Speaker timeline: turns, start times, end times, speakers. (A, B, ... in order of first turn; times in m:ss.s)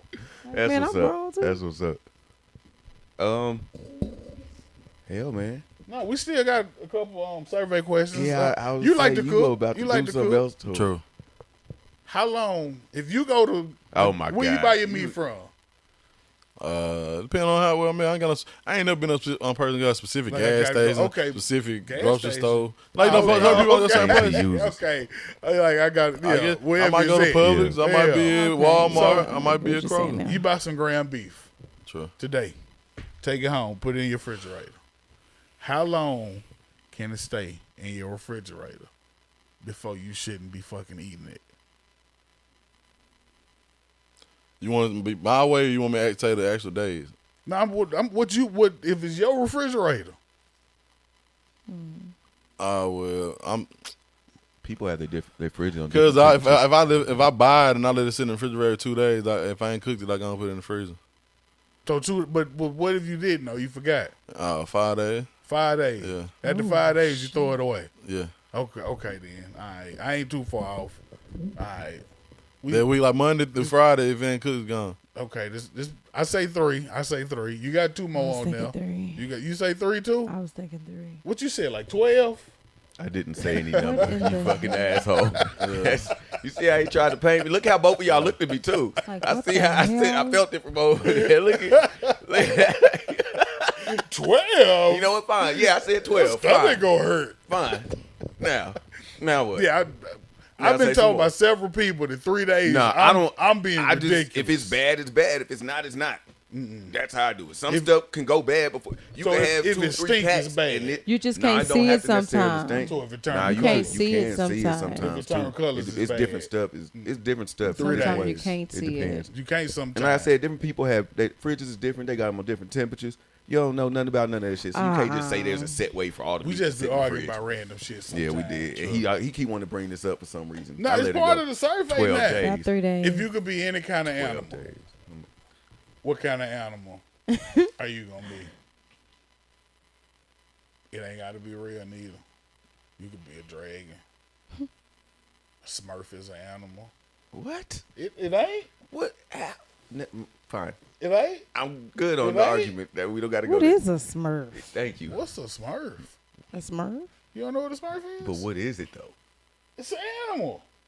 0:00.4-0:01.6 A
0:00.5-0:02.0 B
0:03.2-0:03.7 B
0:05.1-0:05.6 B
0:05.9-0:10.5 C
0:08.1-0:10.9 B
0:10.7-0:11.0 D
0:12.0-0:15.5 C
0:13.9-0:15.2 B
0:16.6-0:24.4 D
0:20.3-0:29.3 C
0:23.0-0:24.8 B
0:26.2-0:30.2 D
0:27.4-0:27.8 B
0:28.3-0:30.4 A
0:30.2-0:31.5 C
0:31.8-0:32.1 D
0:32.2-0:32.6 C
0:33.2-0:34.8 C
0:35.6-0:38.9 C
0:39.6-0:41.4 C
0:44.6-0:47.1 D
0:47.4-0:50.2 C
0:51.7-0:52.1 A
0:52.6-0:53.7 D
0:54.6-0:56.6 B
0:55.9-1:01.0 D
1:01.8-1:04.1 C
1:04.3-1:05.3 D
1:05.4-1:07.9 C
1:06.0-1:06.3 D
1:06.4-1:07.6 A
1:08.0-1:08.3 D
1:08.5-1:11.0 C
1:11.6-1:12.0 C
1:12.6-1:12.9 C
1:12.7-1:15.0 D
1:15.1-1:20.3 C
1:18.1-1:19.2 A
1:20.2-1:21.2 A
1:21.2-1:22.5 C
1:23.0-1:33.9 B
1:23.4-1:24.7 C
1:23.8-1:25.0 A
1:25.2-1:25.5 C
1:25.6-1:26.0 D
1:28.1-1:28.3 D
1:29.0-1:30.4 A
1:31.1-1:32.4 C
1:33.8-1:37.4 C
1:34.9-1:36.8 B
1:37.5-1:39.7 B
1:39.5-1:44.8 C
1:40.6-1:41.3 B
1:42.6-1:46.2 B
1:46.5-1:47.0 C
1:46.9-1:59.3 B
1:47.7-1:47.9 C
1:49.2-1:51.0 C
1:51.0-1:55.1 A
1:52.8-1:54.1 C
1:54.9-1:57.1 C
1:57.6-1:58.4 C
1:57.8-1:59.2 A
1:59.3-2:00.3 C
1:59.9-2:07.4 B
2:04.7-2:05.8 A
2:06.4-2:09.1 C
2:08.1-2:12.7 B
2:10.8-2:14.6 C
2:12.4-2:13.3 A
2:14.1-2:15.3 B
2:16.0-2:17.0 C
2:17.8-2:18.5 C
2:20.9-2:22.2 C
2:23.0-2:24.0 C
2:25.6-2:26.9 C
2:27.3-2:27.8 B
2:28.0-2:28.7 C
2:28.9-2:30.8 B
2:31.0-2:31.5 C
2:31.5-2:33.8 B
2:32.2-2:32.8 C
2:33.4-2:34.7 A
2:34.5-2:35.2 B
2:35.1-2:36.1 C
2:36.5-2:37.1 A
2:37.3-2:38.4 C
2:38.2-2:39.1 B
2:39.8-2:40.6 C